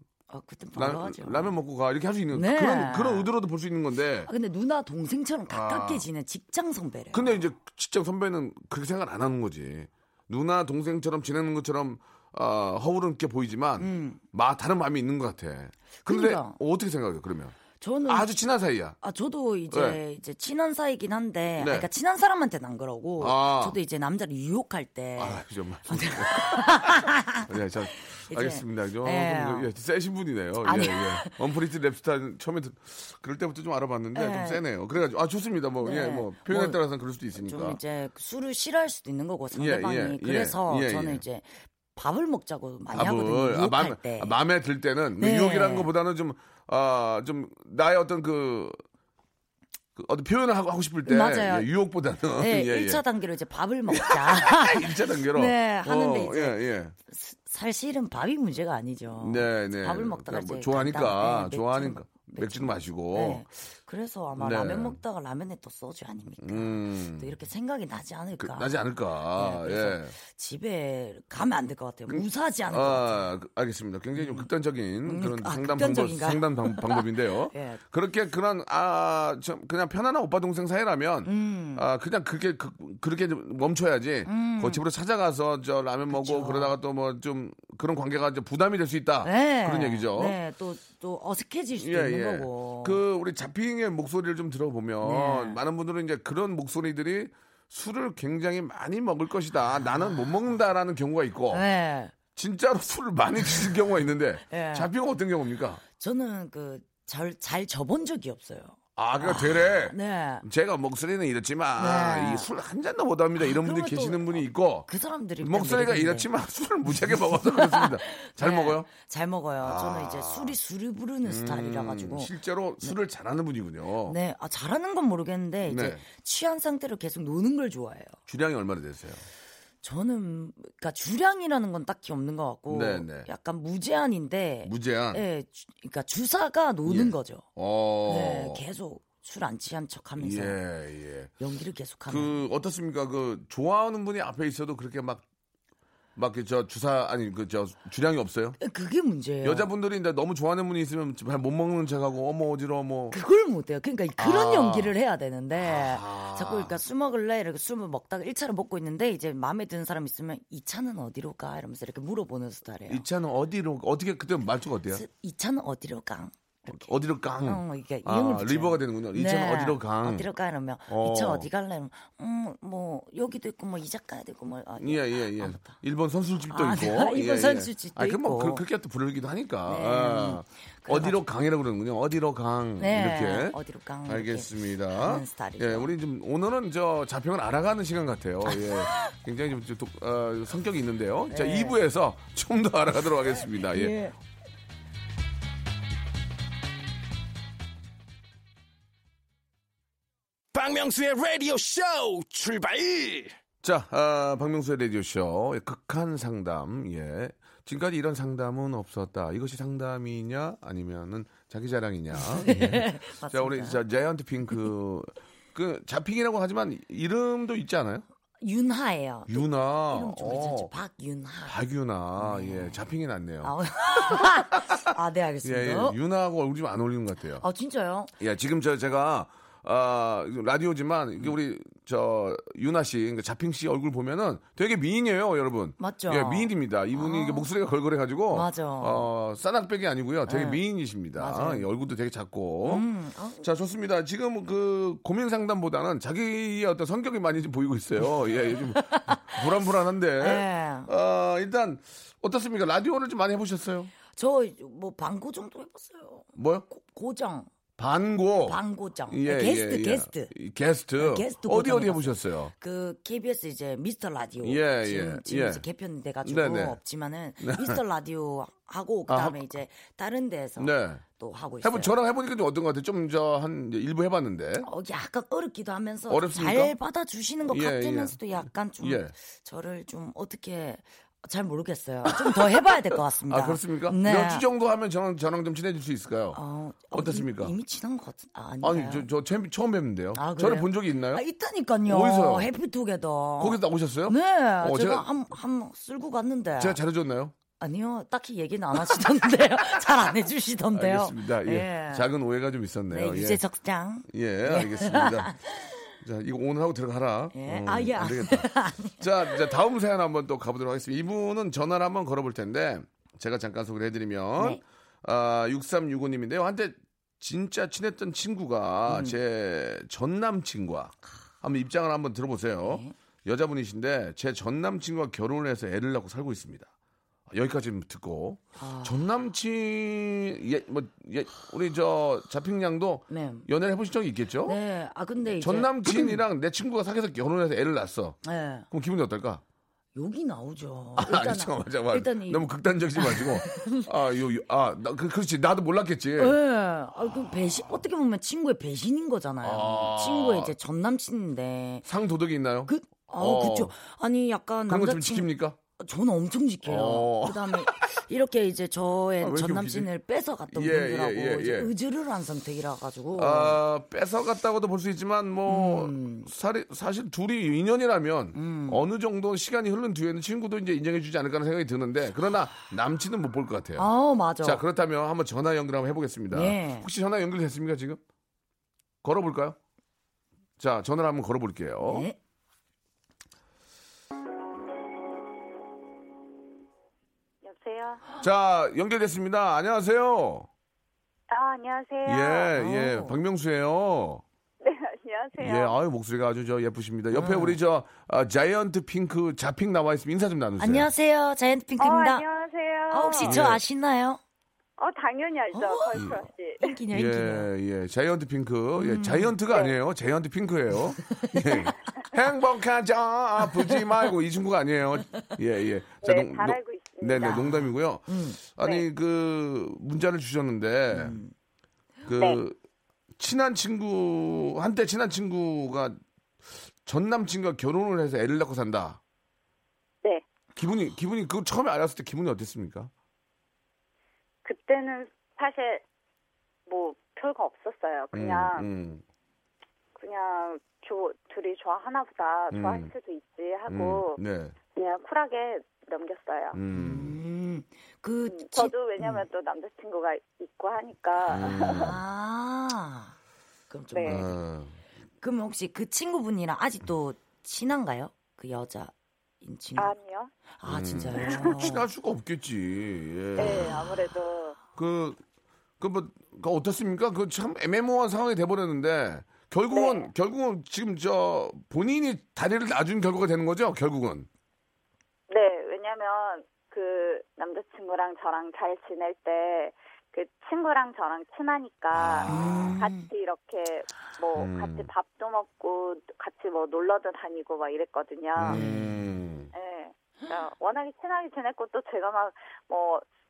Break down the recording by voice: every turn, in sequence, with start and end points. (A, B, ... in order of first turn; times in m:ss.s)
0:00.3-0:01.5 A
0:00.8-0:04.3 B
0:02.3-0:03.3 A
0:04.2-0:07.4 A
0:05.5-0:06.0 B
0:07.1-0:19.0 B
0:13.8-0:14.2 A
0:16.0-0:16.6 A
0:17.8-0:18.3 A
0:19.0-0:27.5 A
0:19.7-0:20.0 B
0:21.6-0:21.9 B
0:23.2-0:23.8 B
0:25.2-0:37.8 B
0:28.2-0:29.7 A
0:30.6-0:31.4 A
0:34.1-0:34.6 A
0:35.8-0:36.8 A
0:37.3-0:44.4 A
0:39.5-0:41.2 B
0:42.9-0:48.8 B
0:45.2-0:45.9 A
0:50.0-0:53.0 B
0:51.0-0:51.7 A
0:52.4-1:08.7 A
0:53.9-0:56.9 B
0:59.2-1:03.4 B
1:04.4-1:05.0 B
1:06.4-1:07.3 B
1:08.4-1:10.1 B
1:09.3-1:13.3 A
1:12.1-1:30.4 B
1:14.2-1:14.5 A
1:15.0-1:17.8 A
1:21.2-1:21.8 A
1:24.2-1:24.8 A
1:26.1-1:26.7 A
1:29.2-1:33.0 A
1:31.8-1:41.6 B
1:35.0-1:35.6 A
1:41.5-1:42.1 A
1:42.3-1:45.8 B
1:44.5-1:44.9 A
1:45.9-1:50.4 A
1:49.0-1:54.9 B
1:51.8-1:52.5 A
1:53.4-1:56.3 A
1:55.4-1:58.9 B
1:57.1-2:02.3 A
1:59.6-2:00.6 B
2:01.2-2:04.2 B
2:04.1-2:08.2 A
2:05.7-2:06.0 B
2:08.3-2:09.2 B
2:09.8-2:17.4 A
2:12.7-2:13.3 B
2:14.6-2:15.2 B
2:16.8-2:18.6 B
2:18.1-2:20.6 A
2:20.2-2:21.3 B
2:21.4-2:22.4 A
2:22.1-2:25.2 B
2:26.2-2:28.6 B
2:28.6-2:29.7 A
2:29.4-2:33.2 B
2:33.1-2:43.0 A
2:34.2-2:34.9 B
2:35.6-2:36.7 B
2:42.9-2:45.0 B
2:44.9-2:46.9 A
2:46.7-2:50.3 B
2:47.4-2:55.8 A
2:50.9-2:51.5 B
2:54.8-3:14.0 B
2:56.5-2:58.6 A
2:59.7-3:01.2 A
3:02.8-3:05.9 A
3:08.5-3:08.8 A
3:11.3-3:11.8 A
3:13.6-3:14.2 A
3:20.5-3:23.3 C
3:23.6-3:38.0 B
3:32.1-3:33.8 A
3:38.4-3:41.6 A
3:39.3-3:40.7 B
3:41.4-3:44.8 B
3:42.2-3:42.8 A
3:43.4-3:46.0 A
3:45.4-3:47.4 B
3:47.4-3:48.1 A
3:48.2-4:02.8 B
3:55.8-3:57.5 A
3:58.3-3:59.1 A
4:00.3-4:00.6 A
4:01.1-4:01.7 A
4:02.6-4:03.4 A
4:03.4-4:13.9 B
4:08.7-4:09.4 A
4:10.2-4:10.9 A
4:14.1-4:17.5 A
4:16.4-4:16.6 B
4:17.8-4:22.5 B
4:18.4-4:20.3 A
4:21.0-4:31.9 A
4:24.4-4:25.6 B
4:26.2-4:26.8 B
4:27.4-4:27.8 B
4:29.1-4:29.4 B
4:30.6-4:31.0 B
4:31.6-4:34.7 B
4:34.6-4:44.4 A
4:36.1-4:36.7 B
4:37.5-4:38.2 B
4:38.8-4:39.1 B
4:42.1-4:46.4 B
4:46.3-4:49.1 A
4:46.9-4:47.5 B
4:48.6-4:51.2 B
4:50.1-4:56.8 A
4:51.8-4:52.5 B
4:53.4-4:55.1 B
4:56.6-4:57.3 B
4:57.6-5:02.1 A
5:00.7-5:03.4 B
5:02.9-5:05.8 A
5:04.1-5:05.3 B
5:06.0-5:26.7 B
5:07.3-5:09.5 A
5:18.9-5:19.2 A
5:22.6-5:22.9 A
5:27.3-5:34.6 B
5:28.6-5:29.0 A
5:33.1-5:33.5 A
5:34.4-5:36.2 A
5:35.4-5:38.2 B
5:38.2-5:38.7 A
5:38.7-5:39.4 B
5:39.9-5:43.9 A
5:41.0-5:46.4 B
5:46.2-5:51.8 A
5:49.4-5:50.5 B
5:51.8-5:53.7 B
5:52.6-6:03.6 A
5:54.7-5:55.6 B
5:56.6-5:57.8 B
5:59.2-5:59.9 B
6:00.5-6:01.7 B
6:03.2-6:13.9 B
6:05.5-6:06.3 A
6:08.3-6:08.8 A
6:13.8-6:14.6 A
6:14.4-6:18.0 B
6:16.3-6:16.9 A
6:19.0-6:19.6 B
6:20.6-6:22.1 B
6:21.8-6:22.2 A
6:27.4-6:28.0 D
6:28.2-6:30.5 B
6:31.3-6:32.5 D
6:32.0-6:34.2 B
6:32.6-6:33.1 A
6:34.6-6:35.7 D
6:35.4-6:40.9 B
6:37.1-6:37.6 A
6:40.6-6:42.2 A
6:41.8-6:43.4 D
6:42.9-6:44.2 A
6:43.2-6:43.6 B
6:44.8-6:46.7 D
6:45.5-6:47.5 A
6:46.9-7:01.2 B
6:48.8-6:49.3 A
6:51.0-6:51.7 A
6:56.0-6:57.4 D
6:57.2-6:58.4 A
7:00.9-7:01.3 A
7:02.0-7:02.6 B
7:03.2-7:06.0 B
7:06.8-7:09.0 B
7:10.6-7:12.9 B
7:14.4-7:15.8 D
7:16.7-7:18.6 D
7:18.1-7:19.0 B
7:20.0-7:24.2 D
7:22.5-7:22.9 B
7:23.7-7:24.5 B
7:24.7-7:26.6 D
7:26.5-7:27.2 B
7:26.7-7:29.2 A
7:28.3-7:32.0 D
7:31.3-7:31.9 B
7:31.6-7:33.1 A
7:33.7-7:34.3 A
7:33.9-7:34.2 D
7:34.1-7:34.8 B
7:35.2-7:39.9 A
7:39.8-7:40.3 D
7:40.6-7:41.8 A
7:40.6-7:43.9 B
7:41.2-7:41.6 D
7:43.4-7:44.6 D
7:44.8-7:45.2 B
7:45.8-7:54.3 B
7:49.7-7:50.1 D
7:55.3-8:08.6 D
8:01.9-8:02.8 B
8:02.2-8:03.0 A
8:04.3-8:04.9 B
8:08.4-8:09.5 B
8:08.4-8:09.0 A
8:09.5-8:13.0 D